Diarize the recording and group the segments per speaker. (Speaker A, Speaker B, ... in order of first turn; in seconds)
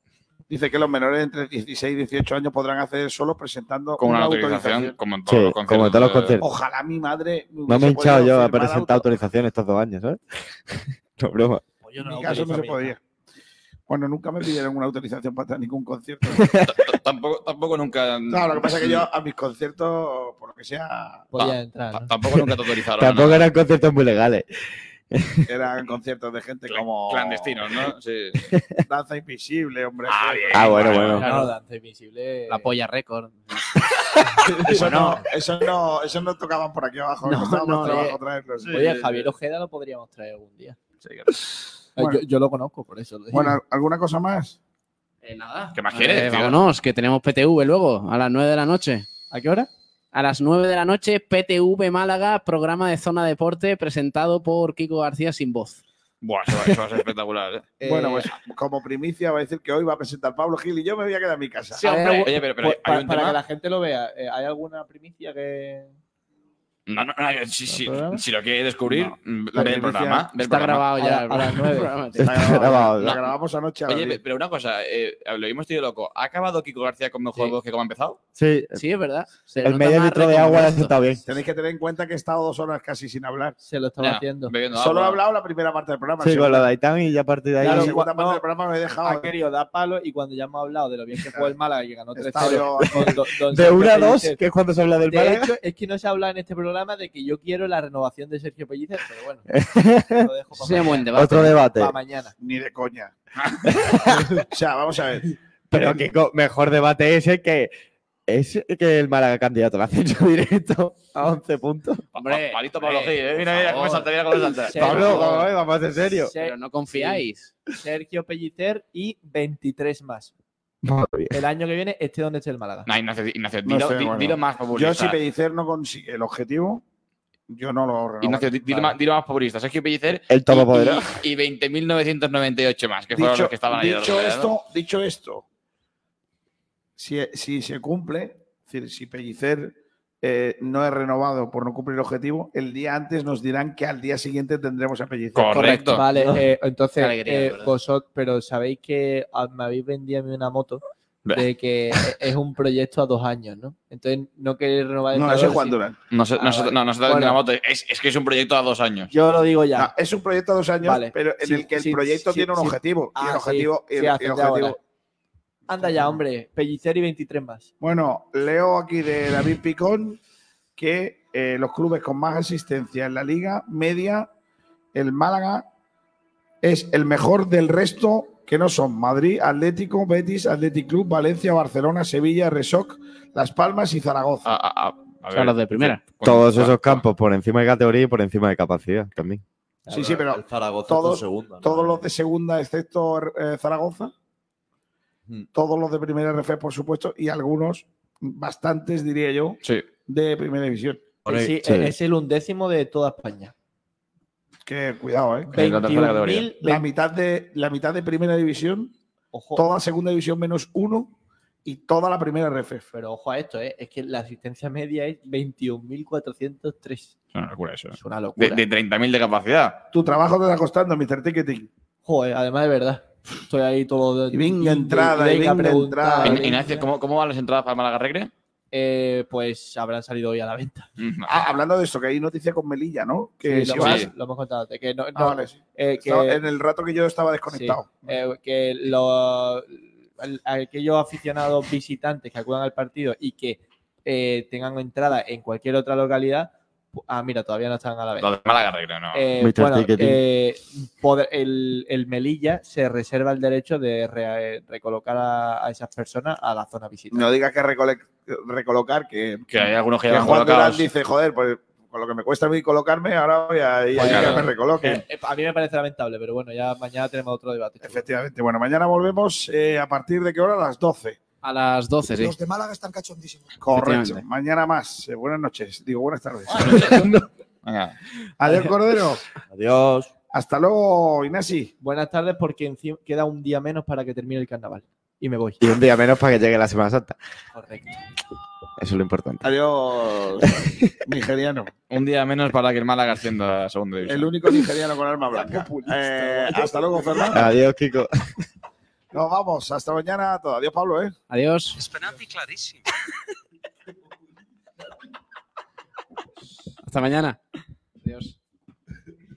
Speaker A: 0.5-4.9, 6.4-9.1, 12.0-13.0, 13.9-16.6, 18.3-21.3, 25.5-27.8, 28.9-31.2, 34.6-39.0, 43.3-44.6, 57.8-61.8, 68.9-70.3, 72.2-74.2, 81.2-83.5, 84.7-86.7, 87.6-89.3, 91.3-91.5, 92.2-93.2, 102.4-103.1, 104.4-106.0, 123.6-126.8, 127.5-128.9, 133.1-135.4, 137.0-145.8, 155.1-155.9, 159.7-164.8, 165.7-166.2, 167.8-170.2, 170.8-174.3, 174.9-175.7, 176.6-184.5, 189.9-194.1, 195.5-201.1, 204.7-205.6, 206.6-208.9, 209.5-211.1, 211.6-212.9, 219.9-221.7, 224.3-226.5, 231.2-234.1, 235.1-238.2, 257.1-265.0, 267.8-271.2, 273.5-277.1, 278.4-279.2, 280.3-281.7, 289.4-291.7, 294.1-297.5, 299.1-301.1
Speaker B: 4.0-6.4, 16.6-19.1, 21.4-23.5, 26.7-28.4, 30.1-31.2, 45.7-46.6, 56.2-57.8, 61.8-63.4, 66.9-70.9, 73.0-73.3, 73.9-78.2, 84.0-85.2, 112.1-115.3, 122.8-125.2, 128.2-134.5, 145.3-146.1, 156.1-159.1, 184.4-187.0, 205.5-206.5, 217.3-219.8, 226.2-228.3, 231.0-231.5, 233.8-234.1, 248.2-249.2, 259.5-260.9, 264.0-264.5, 276.5-277.1, 277.6-278.0, 291.9-294.3
Speaker C: 5.3-6.5, 7.7-11.6, 16.3-16.8, 22.3-24.4, 25.1-25.5, 28.5-28.8, 30.5-31.4, 72.2-73.2, 78.3-78.8, 79.6-81.2, 86.2-88.0, 92.7-95.6, 99.5-100.3, 101.1-102.0, 103.7-104.4, 105.7-107.7, 108.3-112.0, 114.8-116.3, 120.8-121.4, 130.3-131.2, 186.2-189.4, 201.6-201.9, 249.4-250.2, 272.5-273.2, 285.6-287.1, 288.8-289.5, 290.4-290.7, 297.3-298.1
Speaker D: 11.8-13.0, 21.3-22.1, 31.2-32.7, 34.4-35.0, 37.2-38.1, 38.7-40.8, 42.0-43.6, 49.3-49.7, 57.8-58.2, 61.8-65.9, 67.7-68.2, 71.0-72.1, 83.6-84.5, 87.6-88.4, 89.0-94.4, 95.0-99.5, 100.0-102.3, 114.7-117.2, 117.8-120.3, 121.3-122.9, 145.6-155.8, 156.3-157.4, 159.1-159.9, 160.8-164.8, 165.7-167.7, 201.2-203.5, 205.5-206.9, 209.3-209.7, 212.9-217.1, 217.9-218.6, 222.0-226.8, 228.7-230.9, 233.4-236.4, 237.5-248.3, 249.1-257.3, 263.9-268.0, 281.8-285.6, 287.5-287.9, 295.3-297.3
Speaker E: 31.2-31.4, 32.5-33.7, 34.6-35.2, 37.8-38.1, 45.2-49.1, 50.1-55.8, 61.8-62.3, 70.4-72.8, 78.7-80.9, 100.6-101.6, 112.1-115.2, 116.4-117.5, 146.1-146.4, 147.0-147.7, 185.3-186.0, 271.4-272.4, 273.7-274.2, 301.3-301.9, 306.8-307.4, 308.0-308.3
Speaker F: 38.7-39.2, 189.8-192.1, 201.2-201.5, 279.5-280.1